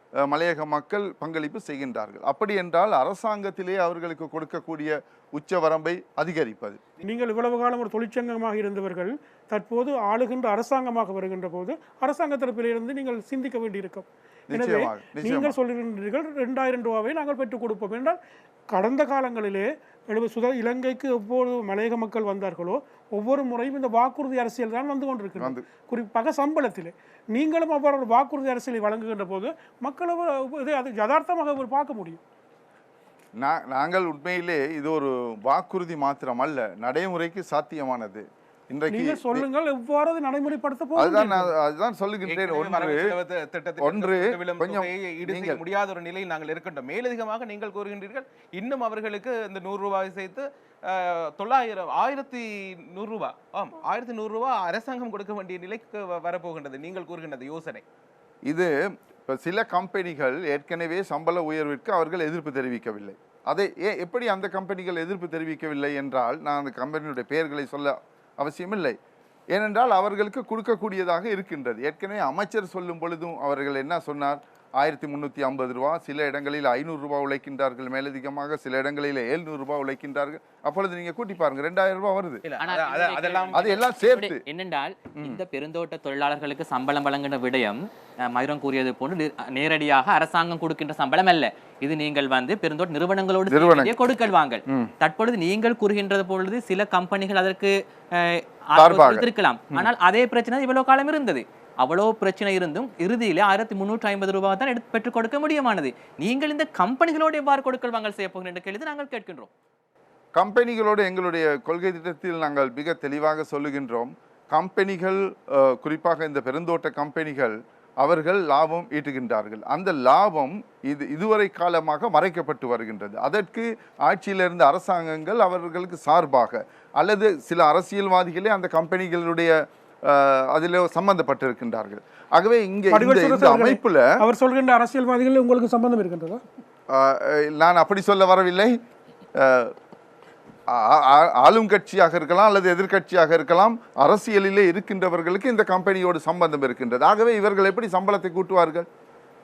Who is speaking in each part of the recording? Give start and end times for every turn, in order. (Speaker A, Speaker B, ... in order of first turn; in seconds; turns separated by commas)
Speaker A: 0.2-6.8, Speaker B: 7.0-18.2, Speaker A: 14.5-15.6, Speaker B: 18.7-32.2, Speaker A: 25.4-25.6, Speaker A: 33.4-39.5, Speaker B: 38.9-41.5, Speaker A: 41.0-43.0, Speaker C: 42.3-57.8, Speaker A: 43.8-45.6, Speaker A: 59.3-69.0, Speaker A: 69.5-82.5, Speaker C: 82.5-83.8, Speaker D: 82.6-109.5, Speaker A: 83.5-84.4, Speaker A: 85.2-85.4, Speaker A: 93.5-94.0, Speaker A: 98.8-99.9, Speaker A: 110.4-129.5, Speaker A: 130.1-134.1, Speaker B: 132.9-136.4, Speaker A: 136.9-138.7, Speaker A: 139.4-139.7, Speaker A: 140.7-148.9